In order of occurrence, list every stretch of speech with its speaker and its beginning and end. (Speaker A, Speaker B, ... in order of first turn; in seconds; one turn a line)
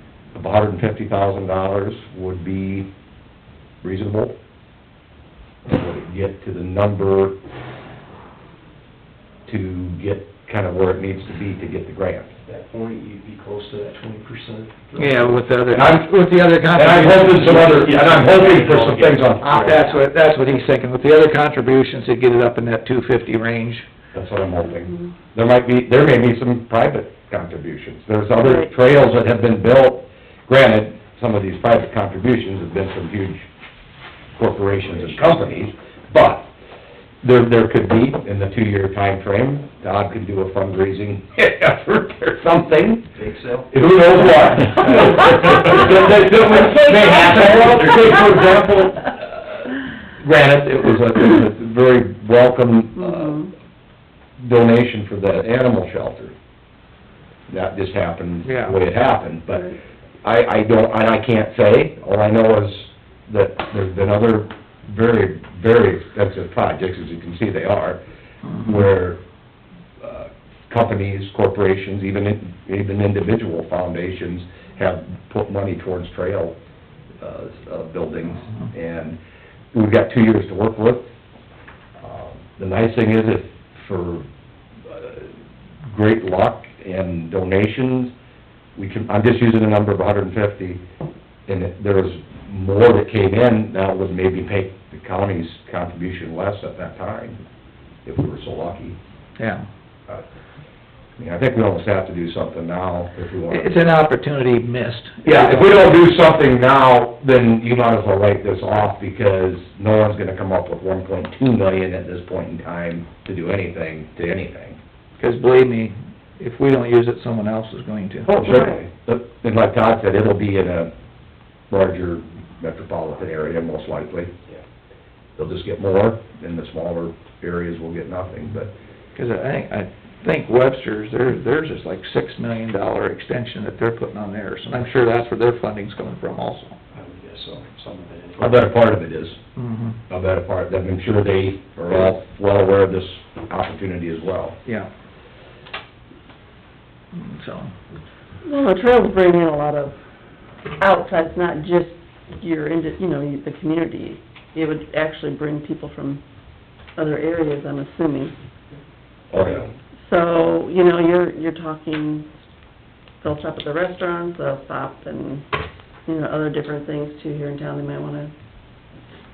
Speaker A: 0.3-2.9
Speaker A: 3.8-4.4
Speaker A: 5.7-7.4
Speaker A: 9.5-12.3
Speaker B: 12.4-15.4
Speaker C: 15.0-17.8
Speaker A: 15.7-16.1
Speaker A: 16.7-19.6
Speaker B: 17.2-20.0
Speaker C: 19.4-23.9
Speaker A: 24.1-33.5
Speaker D: 28.4-28.7
Speaker A: 34.4-36.5
Speaker B: 34.8-35.7
Speaker A: 37.2-43.1
Speaker B: 43.1-43.7
Speaker A: 43.7-53.5
Speaker B: 44.6-48.6
Speaker D: 53.0-53.5
Speaker A: 54.4-56.4
Speaker A: 57.5-68.0
Speaker C: 58.5-58.8
Speaker A: 68.6-69.2
Speaker A: 70.0-76.5
Speaker A: 77.2-79.2
Speaker A: 79.7-81.1
Speaker A: 82.0-84.3
Speaker A: 84.8-85.3
Speaker A: 85.9-88.1
Speaker A: 88.8-90.8
Speaker A: 91.5-97.4
Speaker A: 98.0-99.0
Speaker C: 99.4-99.7
Speaker A: 101.2-103.8
Speaker C: 103.5-105.8
Speaker A: 105.2-114.8
Speaker C: 115.2-118.4
Speaker A: 118.3-120.9
Speaker D: 118.4-118.7
Speaker A: 121.7-124.3
Speaker A: 125.4-128.7
Speaker C: 129.2-136.8
Speaker B: 136.9-138.7
Speaker A: 138.4-139.4
Speaker C: 139.6-140.0
Speaker A: 140.1-144.6
Speaker C: 147.1-147.7
Speaker D: 148.4-150.0
Speaker D: 150.8-156.2
Speaker D: 157.0-158.3
Speaker A: 159.3-159.7
Speaker B: 159.3-159.7
Speaker D: 160.0-162.3
Speaker D: 163.2-165.5
Speaker D: 166.1-168.3